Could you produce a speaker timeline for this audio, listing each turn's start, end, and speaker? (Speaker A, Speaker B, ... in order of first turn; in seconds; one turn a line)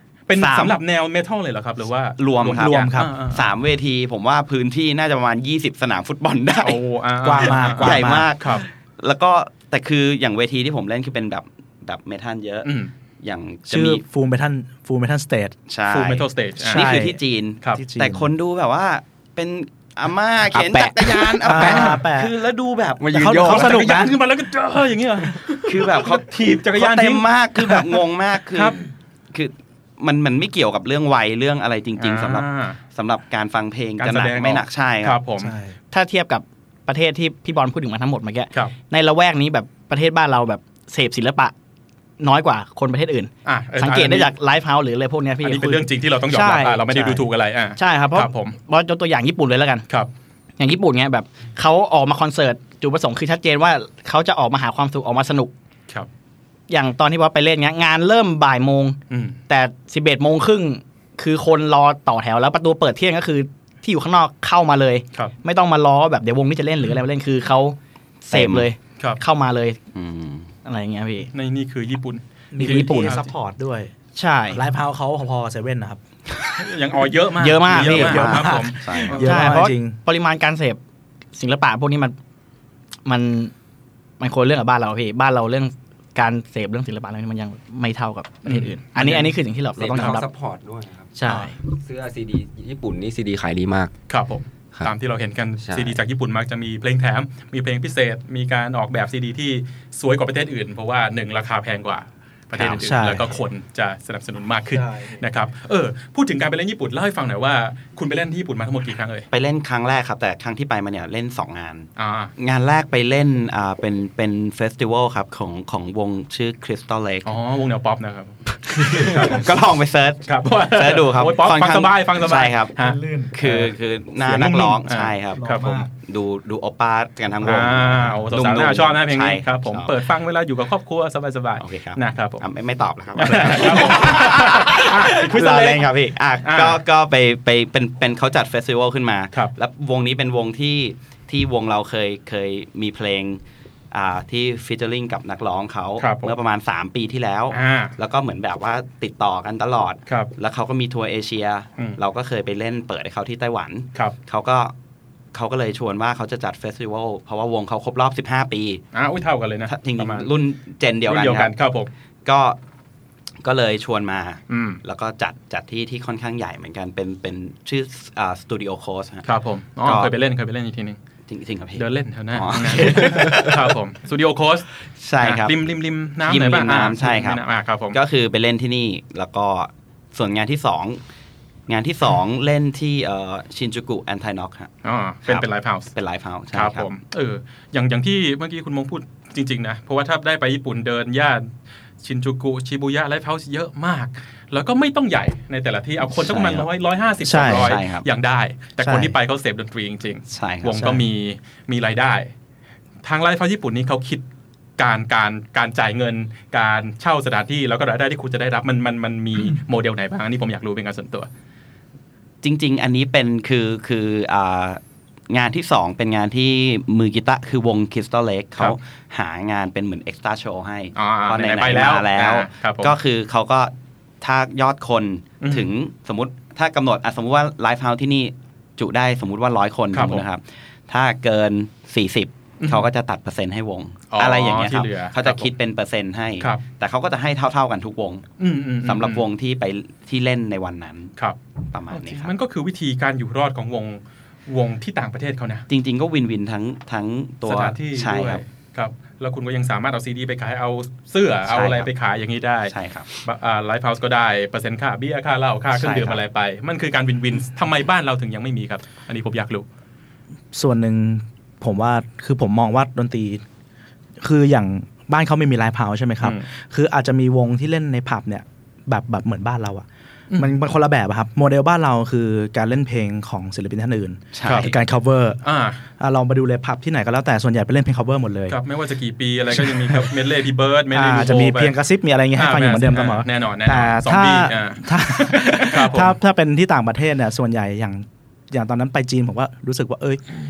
Speaker A: 0.3-3.4
Speaker B: 0.4-0.8
Speaker B: 2.2-6.8
Speaker C: 2.6-3.1
Speaker A: 6.6-8.6
Speaker C: 7.2-8.3
Speaker B: 7.3-14.0
Speaker A: 12.6-12.9
Speaker C: 13.7-15.6
Speaker B: 15.7-24.1
Speaker A: 15.9-16.9
Speaker C: 16.6-17.2
Speaker C: 17.7-18.3
Speaker D: 20.5-21.4
Speaker C: 21.4-22.4
Speaker A: 21.6-22.0
Speaker D: 23.0-23.7
Speaker C: 23.1-24.1
Speaker A: 23.4-27.9
Speaker B: 25.6-28.8
Speaker A: 28.5-28.8
Speaker B: 29.3-35.2
Speaker A: 32.0-32.8
Speaker A: 34.0-35.5
Speaker C: 35.4-35.7
Speaker E: 35.9-41.5
Speaker E: 42.2-47.2
Speaker A: 43.4-44.3
Speaker A: 45.4-48.6
Speaker E: 47.8-49.8
Speaker E: 50.6-55.5
Speaker E: 56.7-59.0
Speaker A: 59.1-59.4
Speaker E: 59.5-67.8
Speaker B: 68.3-68.7
Speaker E: 68.3-69.8
Speaker B: 69.9-70.5
Speaker E: 70.6-71.3
Speaker A: 71.3-73.3
Speaker C: 72.5-73.9
Speaker E: 72.6-73.2
Speaker E: 74.1-74.6
Speaker C: 74.5-76.0
Speaker A: 76.6-79.6
Speaker E: 77.3-78.3
Speaker B: 77.7-79.3
Speaker C: 77.8-80.0
Speaker E: 79.2-80.8
Speaker E: 81.3-82.1
Speaker E: 83.0-83.5
Speaker E: 84.2-90.3
Speaker A: 88.4-89.3
Speaker D: 89.8-93.9
Speaker A: 89.9-90.2
Speaker E: 91.2-91.5
Speaker A: 94.1-109.3
Speaker D: 95.6-96.0
Speaker C: 102.6-103.3
Speaker B: 109.3-117.3
Speaker A: 112.0-112.3
Speaker A: 117.2-119.5
Speaker B: 118.6-122.7
Speaker A: 120.2-123.7
Speaker C: 122.8-123.5
Speaker B: 123.3-129.9
Speaker A: 124.2-125.8
Speaker C: 125.4-125.9
Speaker A: 127.4-132.4
Speaker B: 131.6-154.7
Speaker A: 133.2-135.9
Speaker A: 136.4-136.8
Speaker A: 146.0-146.3
Speaker A: 147.5-147.9
Speaker B: 155.3-158.8
Speaker A: 158.9-160.3
Speaker B: 159.7-161.5
Speaker A: 161.1-161.9
Speaker B: 162.2-162.6
Speaker B: 163.4-169.2
Speaker A: 164.5-164.8
Speaker A: 169.2-171.0
Speaker B: 169.8-170.1
Speaker B: 171.3-173.7
Speaker A: 171.8-174.7
Speaker B: 175.0-175.5
Speaker A: 175.2-178.0
Speaker B: 176.2-177.4
Speaker B: 177.9-181.0
Speaker B: 181.7-184.7
Speaker A: 184.8-185.9
Speaker B: 185.2-186.9
Speaker A: 186.5-191.5
Speaker A: 192.0-202.3
Speaker B: 196.1-196.7
Speaker C: 197.2-197.8
Speaker B: 197.3-198.0
Speaker C: 198.8-199.1
Speaker B: 200.3-201.0
Speaker A: 203.0-204.2
Speaker A: 204.8-211.3
Speaker B: 212.4-238.2
Speaker A: 220.9-222.9
Speaker A: 225.4-225.7
Speaker A: 229.9-230.2
Speaker A: 234.1-235.5
Speaker A: 238.4-239.2
Speaker B: 238.8-241.1
Speaker B: 241.7-242.3
Speaker A: 241.9-245.7
Speaker B: 245.7-248.4
Speaker A: 247.4-259.6
Speaker B: 251.5-251.9
Speaker B: 252.7-253.1
Speaker B: 255.7-256.2
Speaker C: 260.5-263.4
Speaker C: 264.2-275.4
Speaker B: 274.3-274.8
Speaker A: 274.4-274.7
Speaker A: 275.4-275.8
Speaker C: 276.0-278.6
Speaker A: 278.5-281.7
Speaker C: 279.6-280.1
Speaker C: 280.9-290.2
Speaker A: 282.4-286.1